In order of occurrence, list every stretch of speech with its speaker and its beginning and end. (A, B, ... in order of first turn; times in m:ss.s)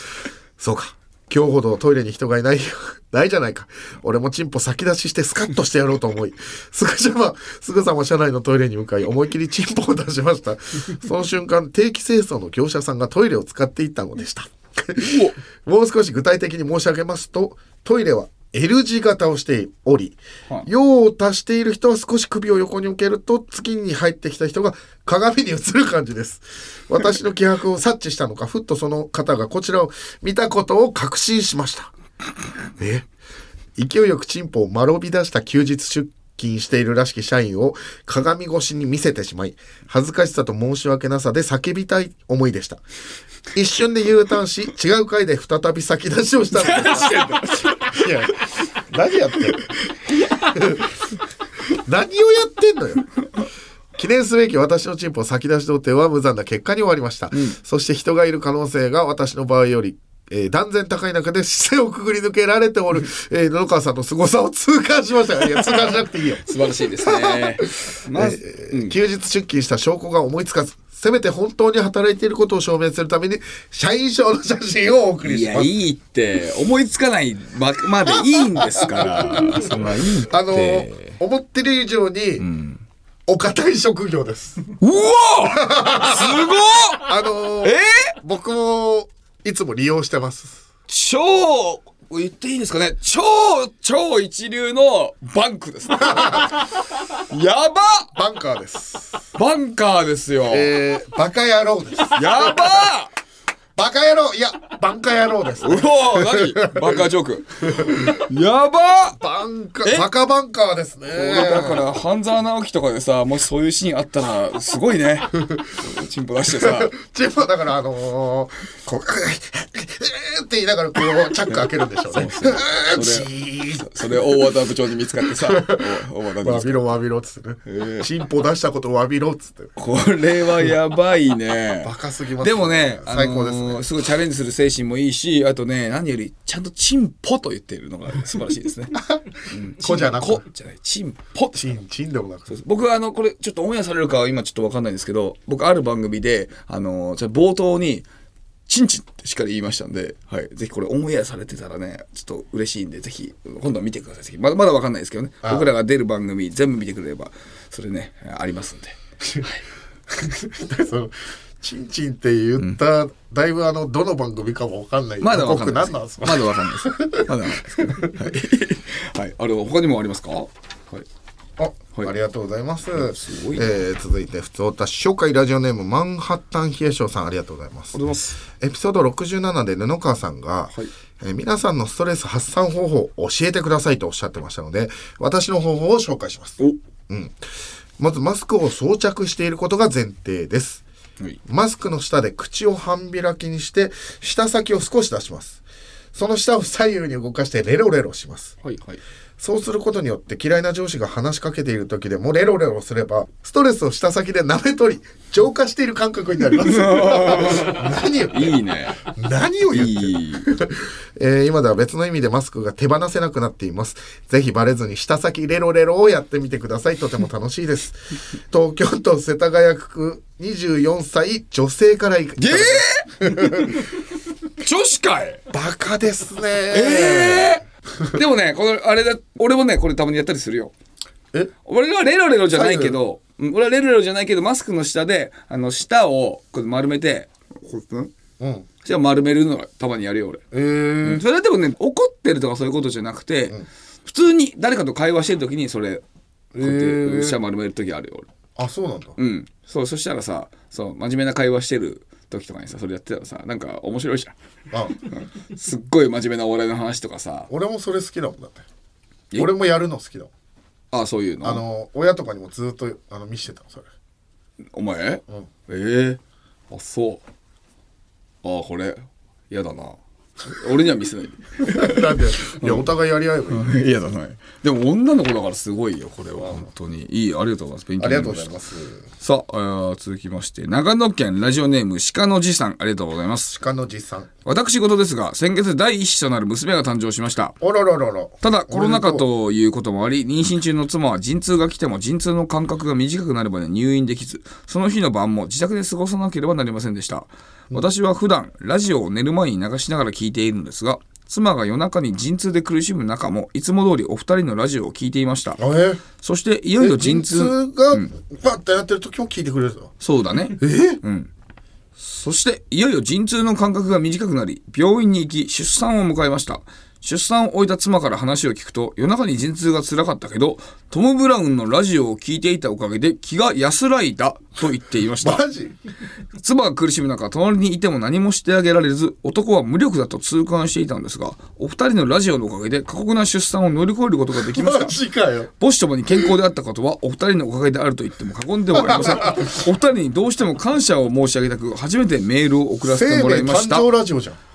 0:00.6-0:31.9 A
0:15.0-0:15.4 B
0:32.8-0:33.1 A
0:33.8-0:42.8 A
0:43.5-0:49.7 A
0:46.5-0:48.1 B
0:50.4-0:50.9 A
0:51.7-0:53.1 A
0:54.0-1:06.4 A
0:57.3-0:57.6 B
1:06.4-1:09.0 B
1:07.0-1:15.8 A
1:15.2-1:21.2 B
1:18.6-1:22.4 A
1:22.4-1:22.8 B
1:23.3-1:24.6 A
1:24.8-1:27.1 B
1:25.5-1:30.6 A
1:27.6-1:28.1 B
1:30.9-1:36.6 B
1:36.0-1:36.5 A
1:37.3-1:38.1 B
1:38.1-1:39.2 A
1:39.4-1:40.7 B
1:40.5-1:42.8 A
1:42.1-1:43.1 B
1:43.8-1:47.0 A
1:45.6-1:49.2 B
1:47.6-1:48.1 A
1:49.2-1:51.9 A
1:49.8-1:50.1 B
1:51.1-1:56.9 B
1:56.5-2:04.4 A
2:01.5-2:06.9 B
2:05.2-2:09.7 A
2:07.6-2:08.1 B
2:09.8-2:21.7 B
2:11.8-2:13.9 A
2:18.9-2:20.4 A
2:21.5-2:22.5 A
2:22.5-2:28.0 B
2:28.7-2:39.6 B
2:35.4-2:35.7 A
2:40.1-2:48.1 A
2:45.2-2:51.0 B
2:51.6-3:07.4 A
2:52.9-2:53.7 B
2:57.9-2:58.4 B
3:08.0-3:10.8 A
3:11.4-3:15.6 A
3:16.1-3:18.6 A
3:18.6-3:19.0 B
3:19.4-3:43.8 A
3:26.6-3:29.0 B
3:29.7-3:30.5 B
3:42.4-3:43.9 B
3:44.6-3:45.4 B
3:45.5-3:48.1 A
3:46.7-3:50.7 B
3:51.6-3:58.1 B
3:52.5-3:53.0 A
3:58.4-3:58.7 A
3:58.8-4:00.4 B
4:00.5-4:01.2 A
4:01.0-4:06.0 B
4:06.5-4:07.4 A
4:06.6-4:08.3 B
4:08.6-4:09.2 A
4:09.2-4:14.3 B
4:14.7-4:15.0 A
4:15.0-4:17.5 B
4:17.5-4:18.6 A
4:19.3-4:20.3 A
4:20.9-4:21.6 B
4:21.4-4:23.9 A
4:24.7-4:27.2 B
4:28.4-4:32.9 B
4:31.6-4:33.7 A
4:33.5-4:38.5 B
4:38.0-4:39.0 A
4:39.2-4:43.6 B
4:43.5-4:44.3 A
4:44.4-4:47.6 B
4:47.6-4:49.2 A
4:48.4-5:05.6 B
5:05.6-5:06.0 A
5:06.2-5:08.1 B
5:06.8-5:09.9 A
5:10.0-5:11.3 B
5:10.6-5:11.0 A
5:12.0-5:25.4 B
5:25.2-5:25.7 A
5:26.4-5:35.0 B
5:34.3-5:35.5 A
5:35.6-5:43.9 B
5:38.7-5:39.6 A
5:42.8-5:44.4 A